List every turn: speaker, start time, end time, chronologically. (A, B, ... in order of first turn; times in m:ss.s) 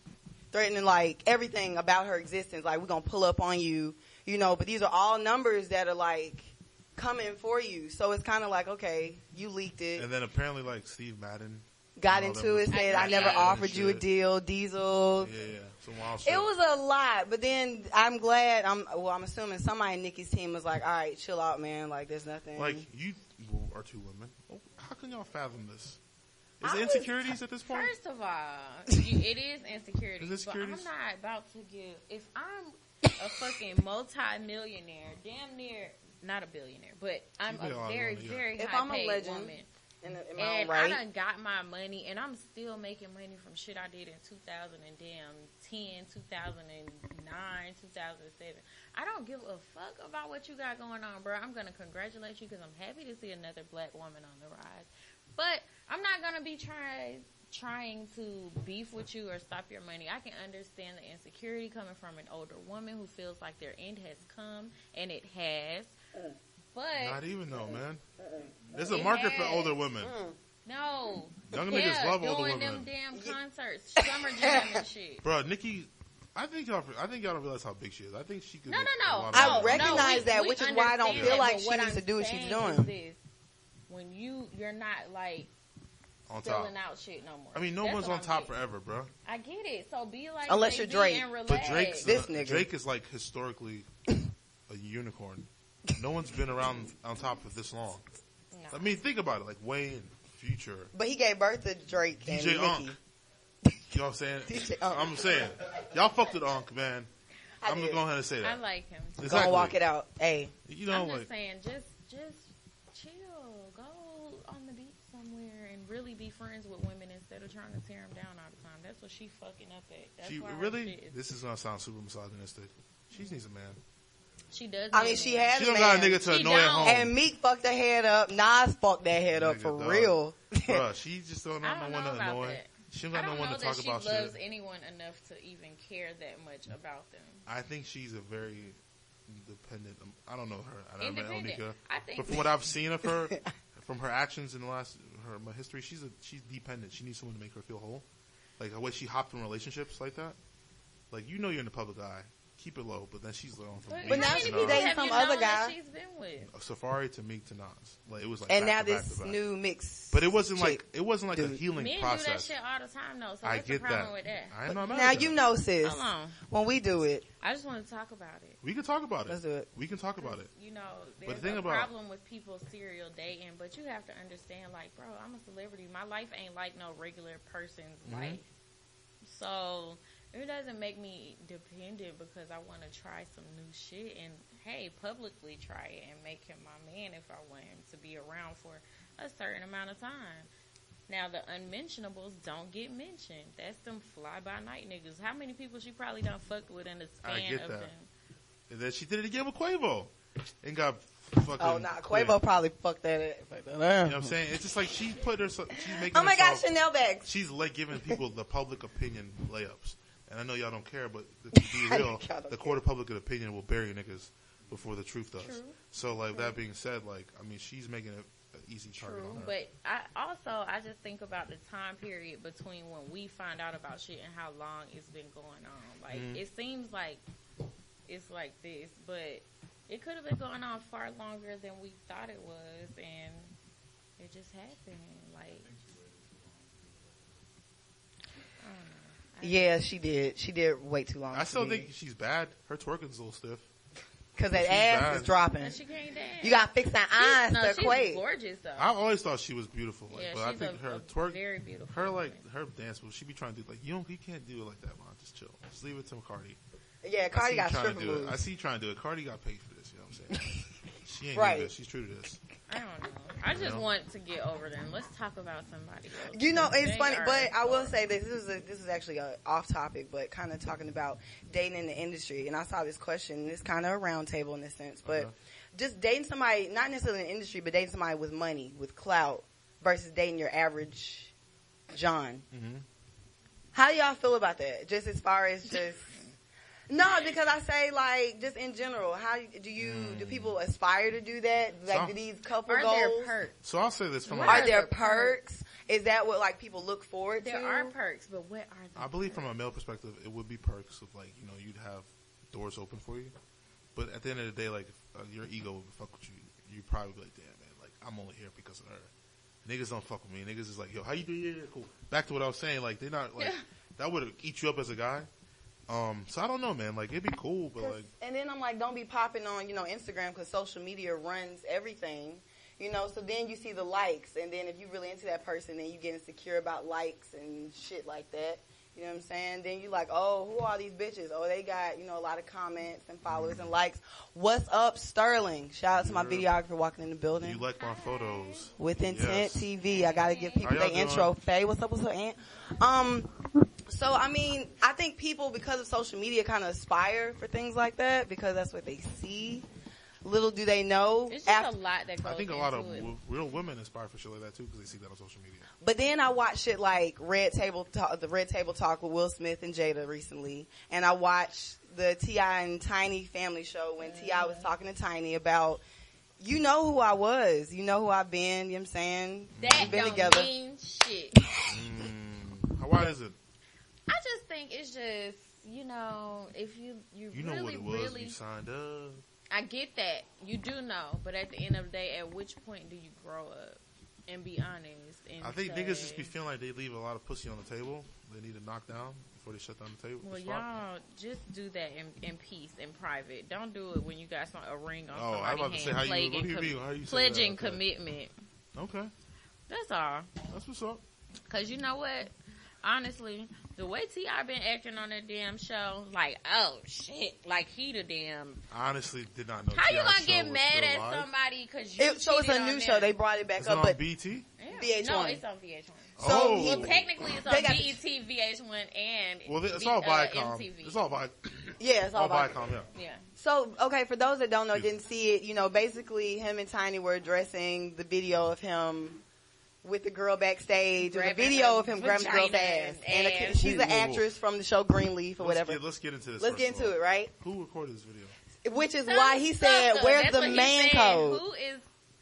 0:00.5-0:10.1 A
0:10.0-0:14.0 B
0:12.0-0:15.3 A
0:12.7-0:13.6 C
0:15.2-0:16.5 B
0:16.2-0:22.9 A
0:22.6-0:26.0 B
0:26.6-0:27.9 B
0:26.6-0:27.1 A
0:27.7-0:39.7 C
0:30.2-0:30.9 B
0:37.5-0:38.5 B
0:38.6-0:41.0 A
0:40.4-1:06.0 C
1:06.7-1:07.2 C
1:07.0-1:08.0 B
1:07.6-1:08.6 A
1:08.7-1:10.1 B
1:08.9-1:09.8 C
1:10.0-1:10.4 A
1:10.6-1:15.2 C
1:11.5-1:12.9 B
1:14.0-1:14.8 A
1:15.2-1:20.3 B
1:18.7-1:23.2 C
1:19.3-1:22.9 A
1:21.1-1:21.4 B
1:23.9-1:25.5 C
1:26.3-1:26.7 B
1:26.4-1:28.5 C
1:27.5-1:29.1 B
1:29.2-1:32.1 C
1:30.5-1:31.3 A
1:31.5-1:33.9 B
1:32.0-1:32.7 A
1:34.7-1:38.0 B
1:38.5-1:39.0 C
1:38.7-1:40.9 B
1:40.9-1:43.0 A
1:42.2-1:43.0 B
1:43.9-1:47.1 B
1:44.5-1:45.5 A
1:47.6-1:48.0 A
1:47.6-1:48.6 B
1:48.4-1:49.5 C
1:49.2-1:49.8 B
1:49.2-1:50.5 A
1:50.7-1:51.3 B
1:50.9-2:01.2 C
2:00.2-2:03.8 B
2:04.5-2:05.5 C
2:04.9-2:06.3 A
2:05.5-2:07.1 B
2:06.2-2:07.0 C
2:06.8-2:10.8 A
2:09.3-2:14.4 B
2:11.6-2:17.4 C
2:17.5-2:18.8 B
2:19.3-2:28.0 B
2:21.0-2:22.5 C
2:28.6-2:30.4 B
2:31.1-2:35.0 B
2:33.9-2:36.5 C
2:34.1-2:35.7 A
2:36.5-2:39.4 B
2:38.5-2:41.6 A
2:40.1-2:42.5 B
2:41.7-2:44.6 C
2:43.4-2:45.4 B
2:44.7-2:47.2 A
2:45.8-2:46.4 C
2:47.4-2:48.6 C
2:48.6-2:50.5 B
2:49.3-2:49.7 A
2:50.2-2:58.4 C
2:51.2-2:51.9 B
2:58.1-2:58.4 B
2:59.2-3:10.5 C
3:11.1-3:18.1 C
3:17.2-3:17.9 B
3:18.7-3:20.1 B
3:20.6-3:22.4 B
3:21.6-3:24.4 A
3:24.0-3:26.7 B
3:25.8-3:27.3 A
3:27.2-3:39.5 B
3:31.5-3:32.8 A
3:35.4-3:35.8 C
3:36.3-3:36.6 C
3:39.0-3:47.2 C
3:46.1-3:46.4 B
3:48.1-3:53.5 C
3:54.2-3:55.7 C
3:58.6-3:59.8 C
3:59.4-4:01.9 A
4:01.3-4:03.7 B
4:04.4-4:05.8 A
4:04.5-4:05.3 B
4:05.6-4:06.7 C
4:06.4-4:08.2 A
4:07.2-4:08.9 C
4:08.8-4:16.6 B
4:10.1-4:12.4 C
4:17.0-4:18.4 A
4:17.3-4:22.4 B
4:21.3-4:21.7 A
4:22.7-4:27.9 C
4:23.5-4:23.8 B
4:26.3-4:41.3 A
4:35.0-4:35.3 B
4:41.9-4:42.4 A
4:42.5-4:42.8 B
4:43.7-4:46.1 A
4:46.9-4:53.4 A
4:49.8-4:50.6 B
4:51.9-4:52.1 B
4:52.7-4:53.6 C
4:53.6-4:54.7 B
4:54.3-4:55.4 C
4:54.4-4:58.0 A
4:57.4-4:59.5 C
4:59.0-5:03.3 B
5:04.0-5:09.1 B
5:09.6-5:15.3 B
5:15.9-5:18.1 B
5:17.8-5:37.6 A
5:33.3-5:33.7 B
5:36.0-5:36.5 B
5:37.4-5:39.7 B
5:37.8-5:38.7 C
5:38.8-5:43.3 A
5:39.9-5:40.7 C
5:40.6-5:41.3 B
5:43.9-5:49.7 A
5:50.2-5:51.7 A
5:51.3-5:53.1 C
5:52.2-5:55.7 B
5:55.8-6:05.8 A
6:04.0-6:04.7 C
6:06.4-6:10.5 A
6:09.6-6:10.4 B
6:09.6-6:11.4 C
6:11.7-6:13.4 B
6:14.1-6:18.4 C
6:17.3-6:19.2 B
6:19.5-6:26.3 C
6:25.4-6:30.7 B
6:30.2-6:38.3 C
6:35.1-6:37.8 B
6:38.8-6:39.1 B
6:39.7-6:40.3 C
6:40.5-6:41.0 B
6:41.5-6:48.6 C
6:48.7-6:51.3 B
6:49.7-6:53.2 C
6:52.0-6:54.0 A
6:53.6-6:54.5 B
6:54.6-7:01.0 C
6:54.7-6:55.4 A
6:56.2-6:57.1 B
6:56.2-6:58.0 A
6:59.5-7:02.9 B
7:01.8-7:02.6 A
7:02.9-7:03.2 C
7:03.4-7:09.2 A
7:09.8-7:15.8 A
7:11.0-7:13.6 C
7:13.6-7:14.2 B
7:15.4-7:18.4 B
7:16.4-7:17.3 A
7:18.6-7:21.4 A
7:19.1-7:21.9 C